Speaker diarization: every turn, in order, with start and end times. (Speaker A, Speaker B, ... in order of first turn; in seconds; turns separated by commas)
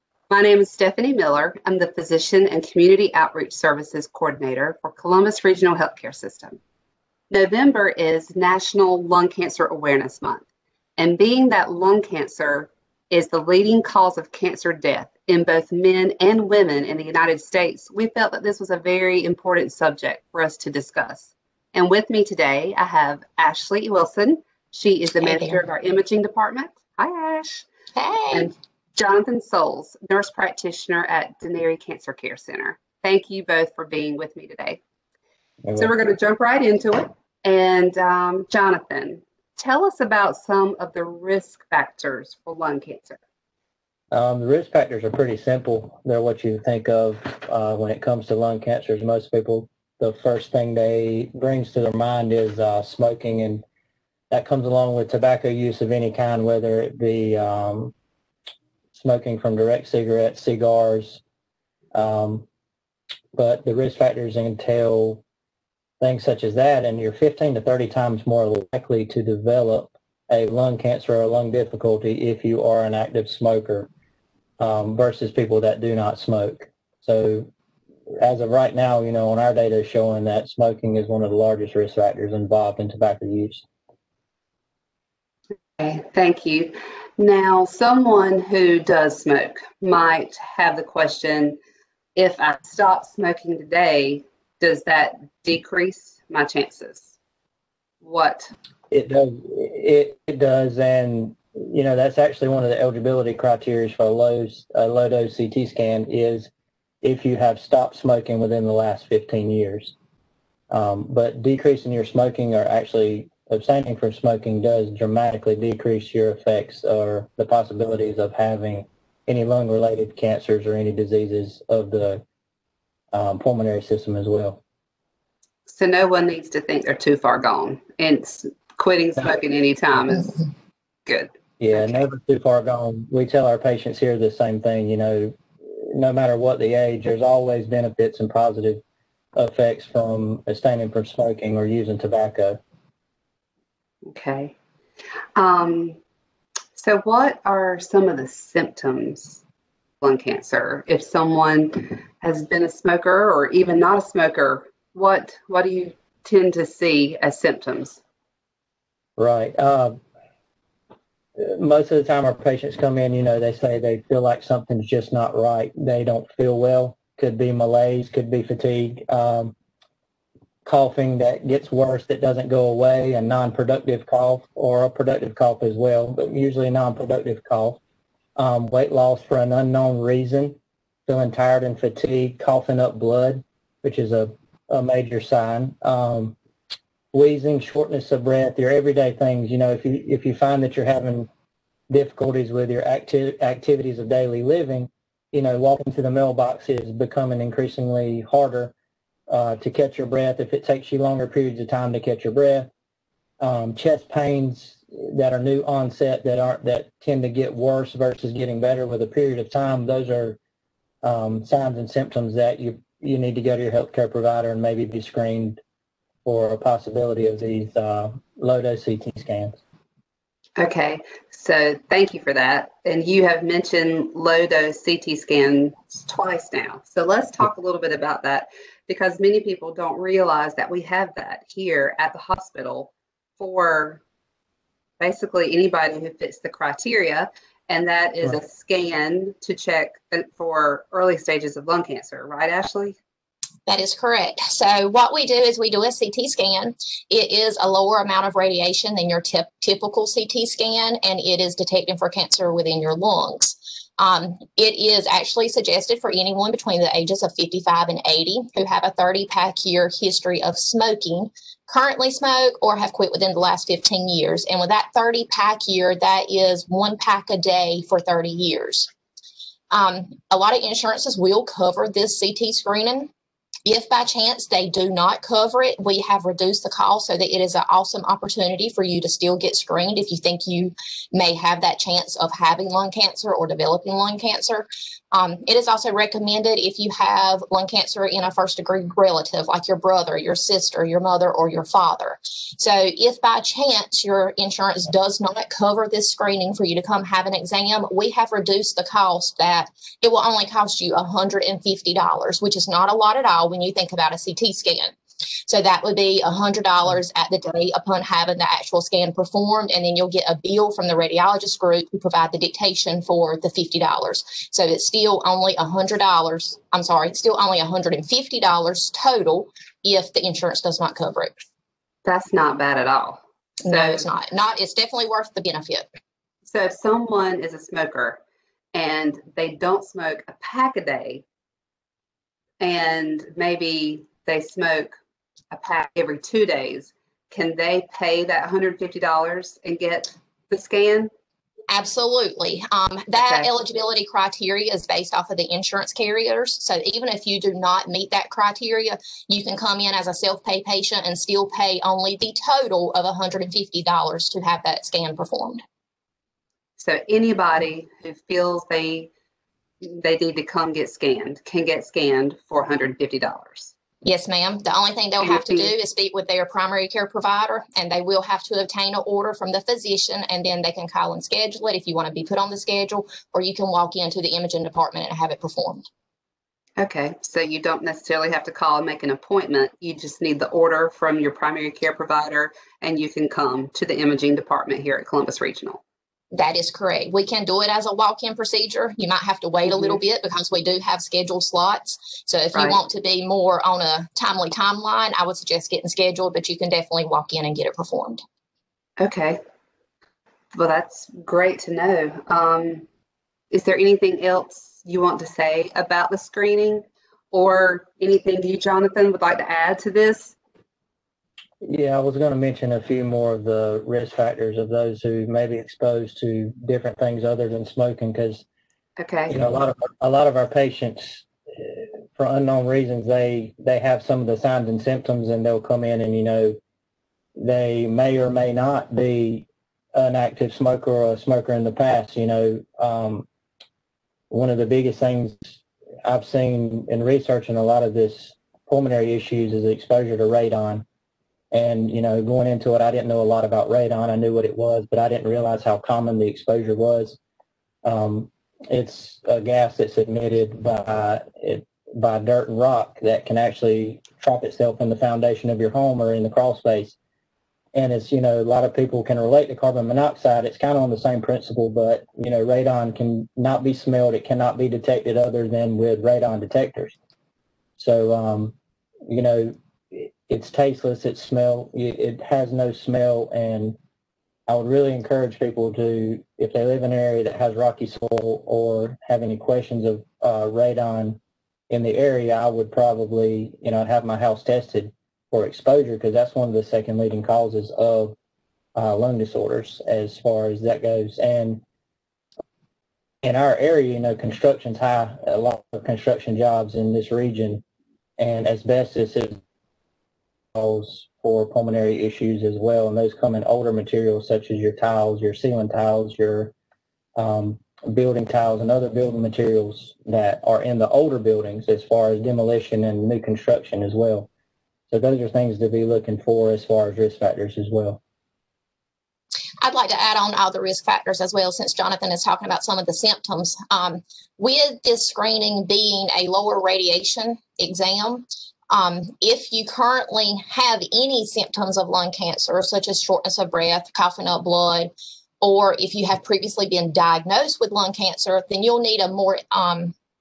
Speaker A: 0.3-6.6, Speaker A: 7.3-10.5, Speaker A: 11.0-27.7, Speaker B: 25.2-25.6, Speaker B: 27.9-28.5, Speaker A: 28.3-34.8, Speaker C: 35.6-35.9, Speaker A: 35.8-43.2, Speaker C: 44.1-53.6, Speaker C: 54.3-57.9, Speaker C: 58.9-61.2, Speaker C: 61.9-62.5, Speaker C: 63.3-65.2, Speaker C: 66.0-73.9, Speaker C: 74.6-77.5, Speaker C: 78.2-83.6, Speaker A: 85.8-91.6, Speaker A: 92.2-97.1, Speaker A: 98.0-98.5, Speaker C: 98.9-106.5, Speaker C: 107.0-110.0, Speaker C: 110.7-122.2, Speaker C: 123.1-124.6, Speaker A: 125.7-130.5, Speaker A: 131.1-132.0, Speaker C: 131.6-138.8, Speaker C: 139.4-142.6, Speaker A: 144.1-144.5, Speaker A: 145.4-146.0, Speaker A: 146.8-149.4, Speaker A: 150.0-158.0, Speaker C: 159.2-160.0, Speaker C: 161.4-169.6, Speaker C: 170.7-177.8, Speaker C: 178.4-186.4, Speaker C: 187.1-191.3, Speaker C: 191.9-198.7, Speaker C: 199.3-202.7, Speaker C: 203.4-210.4, Speaker C: 211.0-215.6, Speaker C: 216.2-219.6, Speaker A: 220.6-234.0, Speaker A: 235.0-243.0, Speaker B: 243.7-268.9, Speaker B: 269.7-273.1, Speaker B: 273.7-304.9, Speaker B: 305.5-321.3, Speaker A: 322.1-324.1, Speaker B: 323.6-325.8, Speaker A: 326.5-328.2, Speaker A: 328.7-331.2, Speaker A: 332.6-334.9, Speaker A: 335.5-341.1, Speaker B: 341.7-355.6, Speaker A: 343.1-343.5, Speaker A: 356.8-359.1, Speaker A: 359.8-363.7, Speaker B: 364.0-375.8, Speaker A: 365.2-365.8, Speaker A: 376.8-385.8, Speaker B: 386.3-398.2, Speaker A: 389.7-390.0, Speaker A: 392.5-392.8, Speaker A: 399.0-399.4, Speaker A: 400.6-402.9, Speaker A: 403.5-410.4, Speaker C: 411.6-418.4, Speaker A: 419.0-419.3, Speaker C: 419.3-426.6, Speaker C: 427.4-433.3, Speaker C: 434.3-440.9, Speaker C: 441.5-447.2, Speaker C: 447.8-457.0, Speaker C: 457.7-467.0, Speaker C: 467.8-468.6, Speaker C: 469.1-473.8, Speaker C: 474.5-488.2, Speaker C: 488.8-491.6, Speaker C: 493.2-497.6, Speaker C: 498.2-499.4, Speaker C: 500.5-506.5, Speaker C: 507.2-514.3, Speaker C: 514.9-518.0, Speaker B: 519.6-540.0